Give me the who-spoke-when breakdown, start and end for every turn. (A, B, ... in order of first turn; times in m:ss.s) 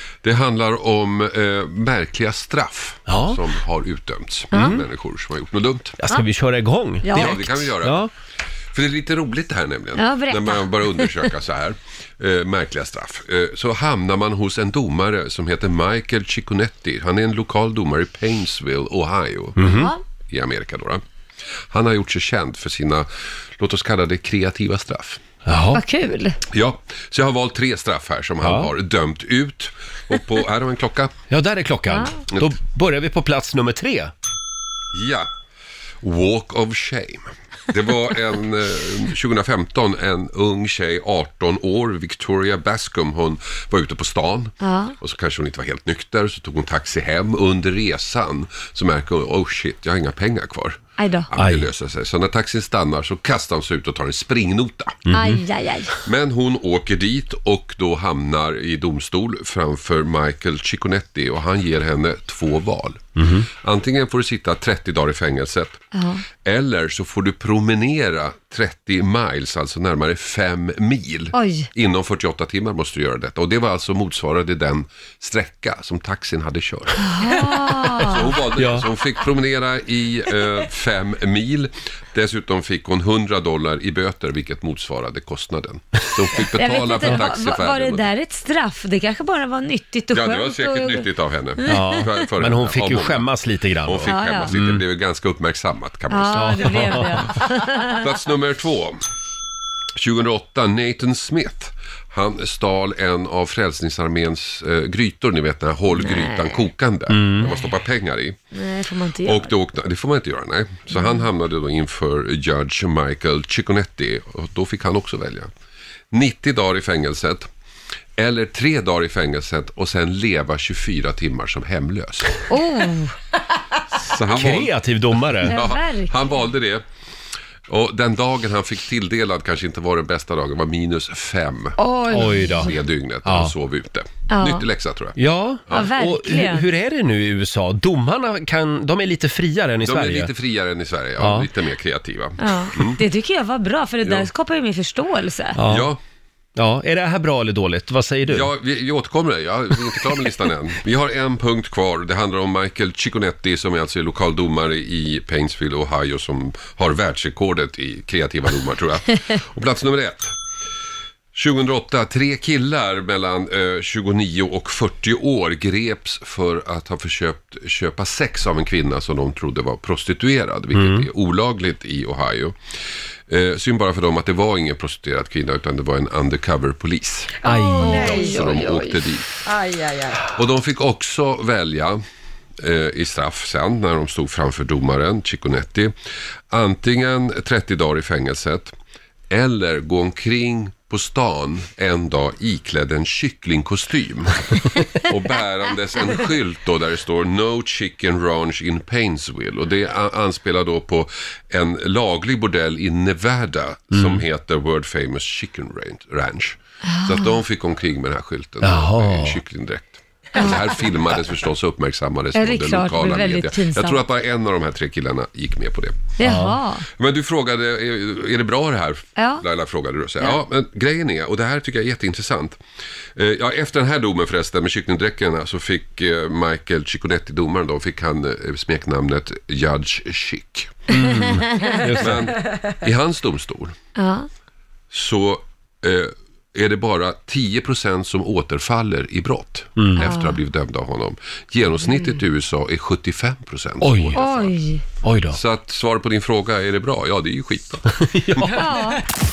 0:00.2-0:06.0 A
0:03.1-0:03.4 B
0:04.5-0:04.8 C
0:04.5-0:04.8 B
0:06.0-0:08.1 B
0:07.1-0:07.4 C
0:07.1-0:08.1 A
0:08.7-0:21.0 A
0:10.0-0:11.3 C
0:19.6-0:19.9 B
0:19.7-0:20.0 C
0:21.7-0:25.2 A
0:25.4-0:25.8 B
0:25.7-0:26.4 C
0:26.5-0:31.1 A
0:28.4-0:28.7 B
0:31.3-0:34.1 B
0:34.9-0:35.3 A
0:36.0-0:55.1 A
0:44.6-0:45.0 C
0:51.0-0:51.3 C
0:51.4-0:51.7 B
0:55.1-0:55.4 B
0:55.1-0:56.0 C
0:56.0-1:05.8 A
1:03.2-1:03.5 B
1:05.9-1:06.2 C
1:06.4-1:28.0 A
1:11.3-1:11.7 C
1:17.0-1:18.3 C
1:18.0-1:18.9 B
1:26.5-1:31.1 C
1:30.1-1:33.3 A
1:31.6-1:32.1 C
1:31.7-1:34.8 B
1:33.8-1:39.0 A
1:34.0-1:34.5 C
1:36.1-1:38.1 C
1:36.4-1:37.3 B
1:40.0-1:48.4 A
1:46.1-1:46.6 C
1:47.1-1:47.5 B
1:48.5-1:49.5 C
1:49.2-1:55.5 A
1:56.1-1:57.5 A
1:58.2-2:02.5 A
2:02.5-2:03.2 C
2:03.9-2:04.8 A
2:04.3-2:05.6 B
2:05.4-2:06.1 C
2:05.4-2:06.8 A
2:07.7-2:15.2 A
2:11.8-2:12.8 C
2:12.1-2:13.5 B
2:14.3-2:14.7 C
2:15.2-2:20.3 B
2:15.7-2:15.9 A
2:15.7-2:16.7 C
2:19.8-2:23.0 A
2:21.2-2:21.5 B
2:22.4-2:25.6 C
2:24.0-2:24.3 A
2:25.6-2:25.9 B
2:25.7-2:26.0 A
2:26.6-2:28.5 B
2:28.3-2:40.3 A
2:41.3-2:52.6 A
2:50.7-2:51.1 B
2:53.3-2:59.3 A
2:57.4-2:58.5 B
2:57.5-3:00.2 C
3:00.2-3:02.0 A
3:02.6-3:05.9 A
3:06.5-3:08.8 A
3:09.3-3:36.1 A
3:23.9-3:24.2 B
3:26.9-3:27.4 C
3:28.6-3:29.4 B
3:30.4-3:30.6 C
3:32.3-3:34.0 C
3:36.2-3:36.9 C
3:36.2-3:36.6 B
3:36.9-3:42.6 A
3:39.2-3:39.4 C
3:43.2-3:50.7 A
3:50.9-3:52.3 B
3:51.9-3:53.7 A
3:54.0-3:54.3 C
3:54.9-4:04.6 A
3:59.8-4:00.0 B
4:00.0-4:00.4 C
4:03.8-4:04.2 B
4:04.2-4:04.8 C
4:05.0-4:05.4 B
4:05.3-4:08.7 A
4:08.0-4:09.0 B
4:08.5-4:09.0 C